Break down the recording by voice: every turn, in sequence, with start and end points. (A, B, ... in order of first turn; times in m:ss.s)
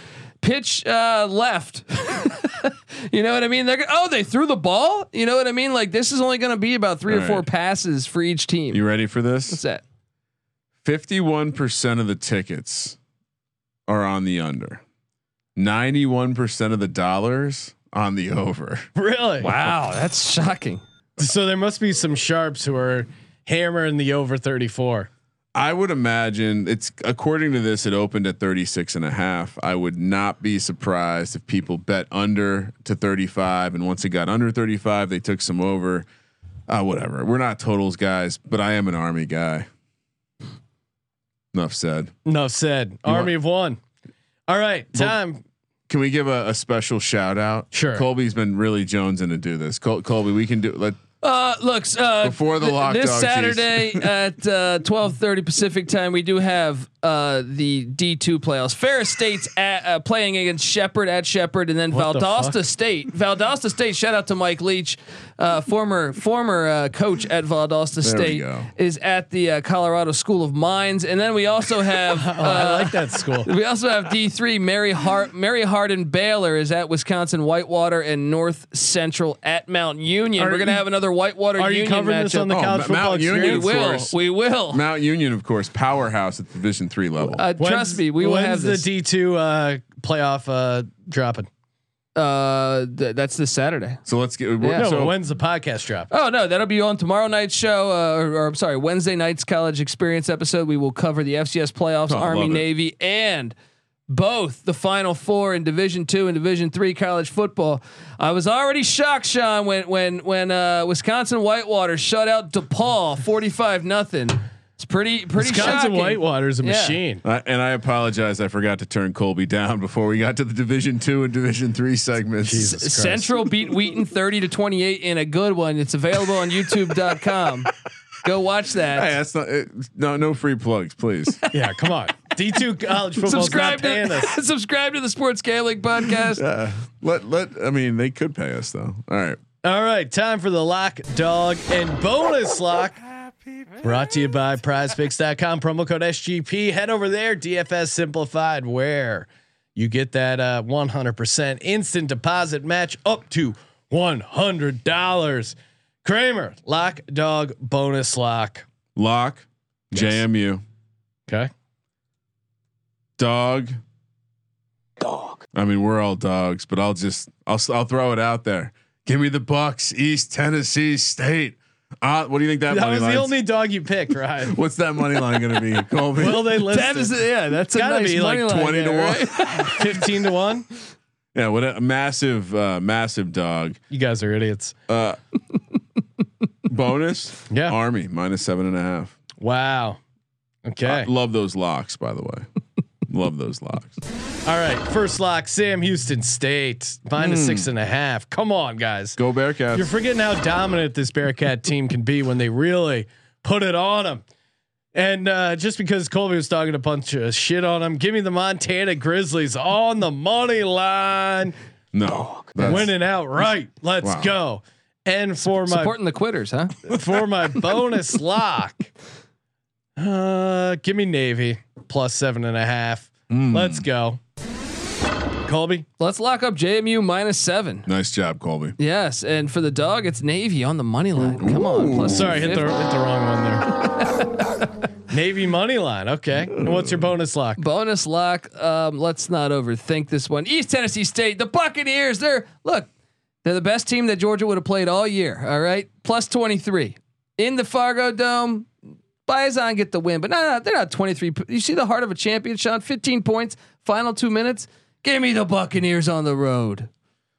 0:00.4-0:08.8 A
0:07.1-0:07.5 B
0:08.7-0:09.6 B
0:09.5-0:09.8 A
0:10.8-0:13.0 B
0:13.9-0:14.8 B
0:15.6-0:18.9 B
0:19.0-0:19.5 C
0:19.4-0:20.8 A
0:21.2-0:25.1 C
0:25.6-0:36.1 B
0:36.7-0:39.7 B
0:41.5-0:42.1 B
0:42.2-0:43.8 C
0:43.1-0:43.3 B
0:44.5-0:45.4 C
0:45.9-0:51.0 B
0:47.7-0:48.0 C
0:51.2-1:22.6 A
0:52.2-0:54.1 B
1:01.9-1:02.6 C
1:08.0-1:08.7 B
1:12.1-1:13.5 C
1:20.4-1:20.8 C
1:21.6-1:23.7 C
1:22.5-1:24.2 B
1:23.3-1:24.8 A
1:24.7-1:27.4 B
1:27.3-1:28.9 A
1:27.6-1:31.5 C
1:32.2-1:34.0 A
1:34.1-1:35.2 B
1:34.8-1:36.1 C
1:36.1-1:43.5 A
1:42.1-1:42.7 B
1:44.1-1:57.0 A
1:55.4-1:57.2 C
1:57.2-2:02.8 B
2:02.4-2:03.3 C
2:02.6-2:07.7 A
2:08.2-2:09.1 A
2:08.9-2:11.5 B
2:11.5-2:14.3 C
2:13.2-2:16.4 A
2:16.3-2:19.4 B
2:19.6-2:23.0 C
2:23.8-2:38.7 C
2:39.0-2:40.6 B
2:43.2-2:43.8 B
2:45.5-2:53.3 B
2:52.7-2:54.6 C
2:54.5-2:56.6 B
2:56.2-2:57.2 C
2:56.5-3:00.1 A
2:57.7-2:58.5 C
2:58.4-2:59.6 B
2:59.6-3:00.7 C
3:01.3-3:03.8 B
3:03.9-3:04.7 C
3:04.9-3:05.2 B
3:06.7-3:09.2 B
3:07.5-3:07.8 C
3:09.4-3:10.0 C
3:10.6-3:11.1 C
3:10.8-3:12.5 B
3:13.1-3:14.0 B
3:14.4-3:19.2 C
3:17.2-3:17.7 B
3:19.2-3:19.9 B
3:19.7-3:24.2 C
3:24.9-3:31.6 C
3:31.9-3:32.9 B
3:32.6-3:35.9 C
3:34.0-3:34.4 B
3:35.5-3:37.2 A
3:36.9-3:38.9 C
3:40.0-3:44.2 C
3:43.3-3:43.9 B
3:45.5-3:45.9 C
3:46.0-3:47.9 A
3:47.9-3:48.8 B
3:48.8-3:52.8 A
3:51.3-3:52.5 B
3:52.0-3:53.8 C
3:53.8-3:54.4 A
3:55.1-3:57.6 C
3:56.5-3:57.0 B
3:57.6-4:02.9 A
4:03.4-4:08.7 A
4:09.3-4:16.9 A